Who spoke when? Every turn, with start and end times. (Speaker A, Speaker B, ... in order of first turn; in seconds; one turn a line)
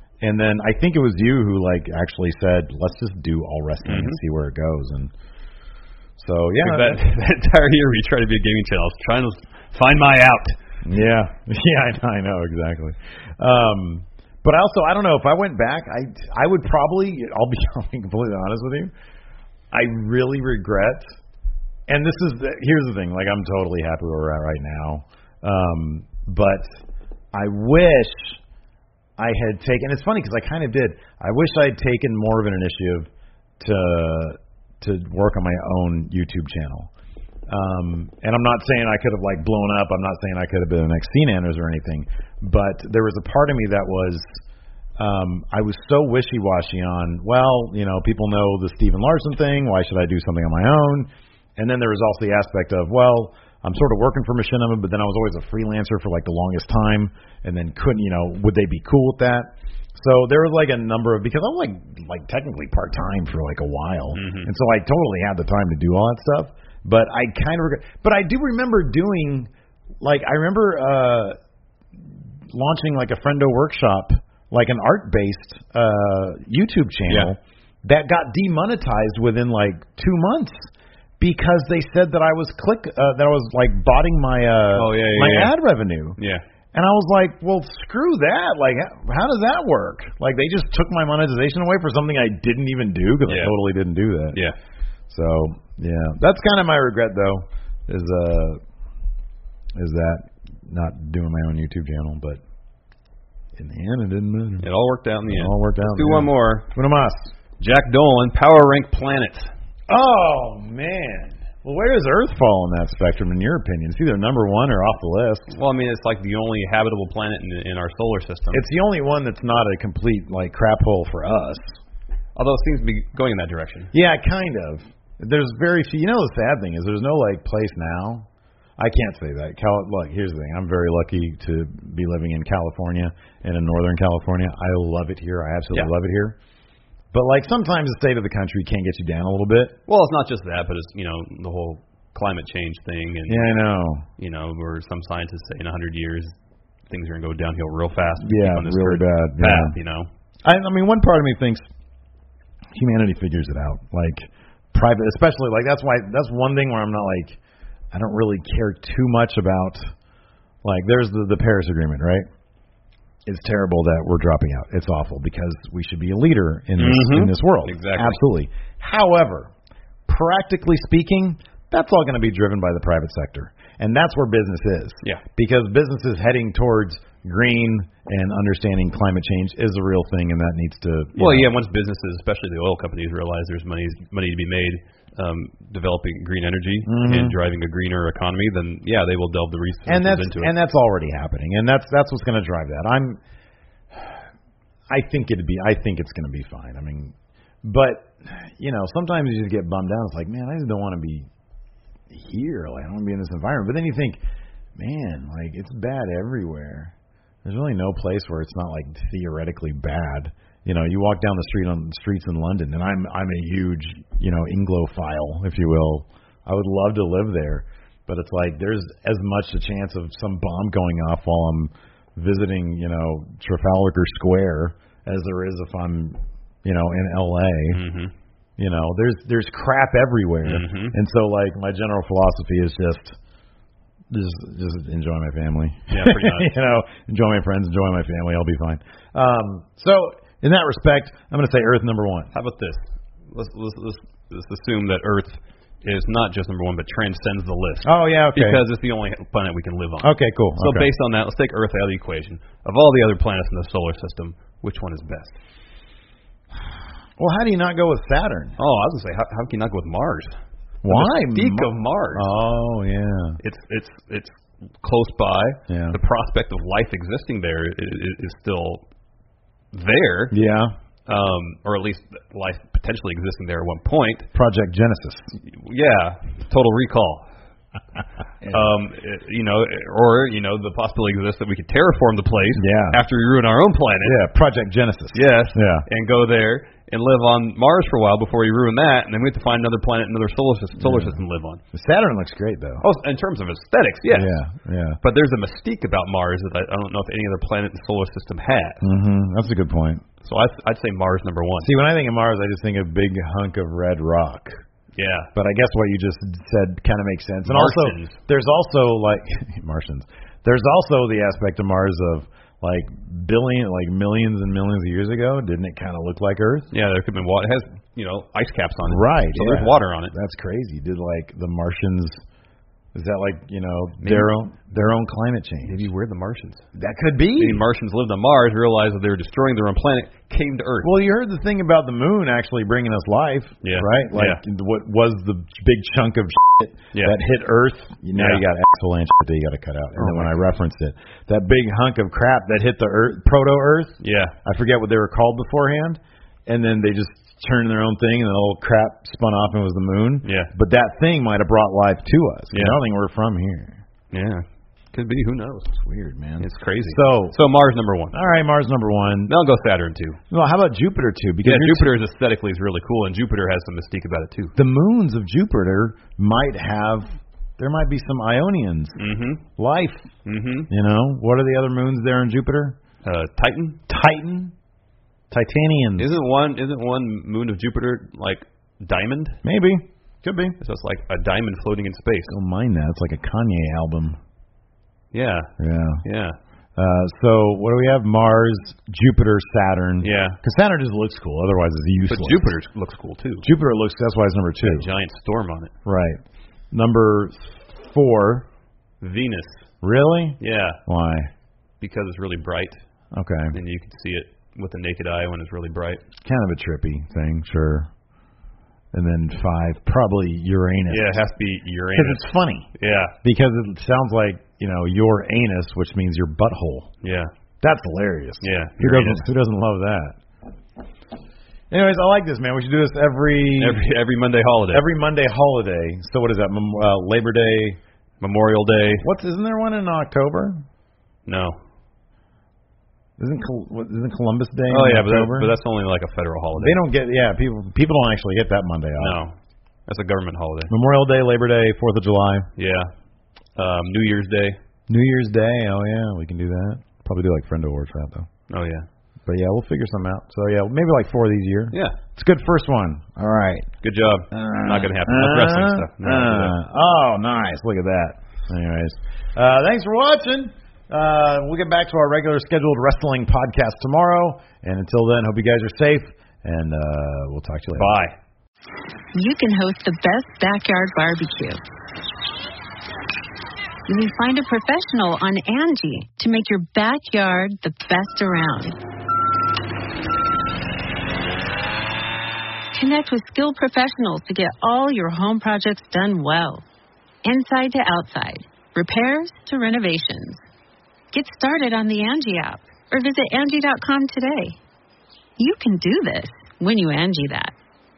Speaker A: 0.2-5.1
Speaker B: 3.9-4.2
Speaker A: 6.2-7.0
Speaker B: 6.6-10.6
Speaker A: 10.8-18.9
Speaker A: 19.7-21.2
Speaker A: 21.9-26.8
Speaker A: 27.3-28.4
Speaker A: 29.2-36.9
Speaker A: 37.5-44.4
Speaker A: 45.0-69.5
Speaker B: 64.1-64.5
Speaker A: 70.0-71.4
Speaker A: 72.5-86.2
Speaker B: 84.8-85.5
Speaker B: 86.2-86.4
Speaker A: 86.7-94.4
Speaker B: 93.3-93.6
Speaker A: 95.1-98.6
Speaker A: 99.8-102.4
Speaker A: 103.5-104.7
Speaker B: 104.6-106.7
Speaker A: 105.3-107.3
Speaker B: 107.6-109.5
Speaker A: 109.9-115.5
Speaker B: 115.5-118.6
Speaker A: 118.5-121.6
Speaker B: 122.4-123.9
Speaker A: 123.9-128.3
Speaker A: 128.8-136.4
Speaker A: 137.1-139.8
Speaker B: 139.9-143.5
Speaker A: 143.3-144.1
Speaker B: 144.2-146.3
Speaker B: 146.9-150.1
Speaker A: 148.2-149.8
Speaker A: 150.4-151.6
Speaker A: 152.7-157.4
Speaker A: 157.9-159.9
Speaker A: 160.6-162.2
Speaker A: 163.3-169.5
Speaker B: 166.8-168.2
Speaker A: 170.1-181.5
Speaker B: 181.2-190.5
Speaker A: 186.8-187.4
Speaker A: 189.9-193.2
Speaker A: 194.9-201.3
Speaker A: 202.1-204.2
Speaker A: 204.8-206.9
Speaker A: 207.4-227.8
Speaker B: 227.7-228.1
Speaker A: 228.6-233.2
Speaker B: 230.4-230.9
Speaker A: 234.1-242.3
Speaker B: 235.9-236.5
Speaker B: 242.3-255.4
Speaker A: 247.8-248.6
Speaker A: 250.0-250.9
Speaker A: 257.2-258.6
Speaker B: 258.6-260.4
Speaker A: 260.8-263.4
Speaker B: 260.9-262.3
Speaker B: 263.4-268.8
Speaker A: 265.7-266.0
Speaker B: 269.7-270.4
Speaker A: 270.3-270.8
Speaker B: 271.1-274.3
Speaker A: 274.3-275.3
Speaker B: 275.4-277.2
Speaker A: 278.4-278.7
Speaker B: 278.5-284.2
Speaker A: 282.6-283.0
Speaker A: 284.0-285.9
Speaker B: 285.1-291.6
Speaker A: 290.8-292.9
Speaker B: 292.8-294.4
Speaker A: 294.1-295.0
Speaker B: 295.0-298.9
Speaker A: 298.8-300.1
Speaker B: 300.2-301.7
Speaker A: 301.6-304.6
Speaker B: 305.0-305.3
Speaker A: 305.4-316.7
Speaker B: 307.4-308.2
Speaker B: 316.7-320.1
Speaker A: 318.9-322.2
Speaker A: 322.9-325.9
Speaker B: 324.0-324.3
Speaker B: 325.6-326.6
Speaker A: 326.8-327.6
Speaker B: 327.4-330.9
Speaker A: 330.8-353.8
Speaker B: 333.6-334.4
Speaker B: 338.1-338.4
Speaker B: 340.0-340.4
Speaker B: 344.0-344.4
Speaker B: 350.2-350.5
Speaker B: 352.5-352.8
Speaker B: 354.1-355.7
Speaker A: 355.8-357.4
Speaker B: 356.4-358.2
Speaker A: 358.1-359.3
Speaker B: 359.3-360.2
Speaker A: 360.3-361.9
Speaker B: 361.4-364.6
Speaker A: 364.6-369.0
Speaker B: 369.0-369.4
Speaker A: 369.6-370.1
Speaker B: 370.2-370.7
Speaker A: 370.7-372.8
Speaker B: 373.0-373.8
Speaker A: 373.9-374.5
Speaker A: 375.3-376.2
Speaker B: 376.0-379.4
Speaker A: 379.4-380.6
Speaker B: 380.6-382.4
Speaker A: 382.3-384.2
Speaker B: 385.1-385.5
Speaker A: 385.6-386.0
Speaker B: 386.0-386.4
Speaker A: 386.8-392.6
Speaker B: 390.0-390.4
Speaker B: 392.1-393.5
Speaker A: 393.4-394.9
Speaker B: 394.6-395.7
Speaker A: 395.9-396.2
Speaker A: 396.7-398.5
Speaker B: 399.0-399.7
Speaker A: 399.8-401.3
Speaker B: 400.4-400.8
Speaker B: 401.8-402.8
Speaker A: 403.1-403.6
Speaker B: 403.5-406.0
Speaker A: 406.2-407.9
Speaker A: 408.9-411.2
Speaker B: 410.9-412.2
Speaker A: 411.9-412.7
Speaker B: 412.8-413.1
Speaker A: 413.2-416.9
Speaker B: 417.0-417.3
Speaker A: 417.6-420.2
Speaker B: 418.4-419.2
Speaker A: 421.7-423.9
Speaker B: 423.6-424.9
Speaker A: 424.7-427.8
Speaker B: 428.2-429.1
Speaker A: 429.0-430.6
Speaker B: 431.3-431.6
Speaker A: 433.2-435.5
Speaker B: 434.7-436.8
Speaker A: 436.6-439.2
Speaker B: 439.0-439.4
Speaker B: 439.9-440.7
Speaker A: 440.7-442.5
Speaker B: 442.6-442.9
Speaker B: 443.6-444.6
Speaker A: 444.9-448.3
Speaker B: 448.5-448.9
Speaker A: 449.3-453.7
Speaker B: 451.7-452.0
Speaker B: 453.8-456.5
Speaker A: 454.3-468.0
Speaker B: 467.7-468.1
Speaker C: 469.1-471.6
Speaker C: 473.9-478.8
Speaker C: 482.7-486.6
Speaker C: 487.2-490.4
Speaker C: 491.1-494.6
Speaker C: 495.4-497.5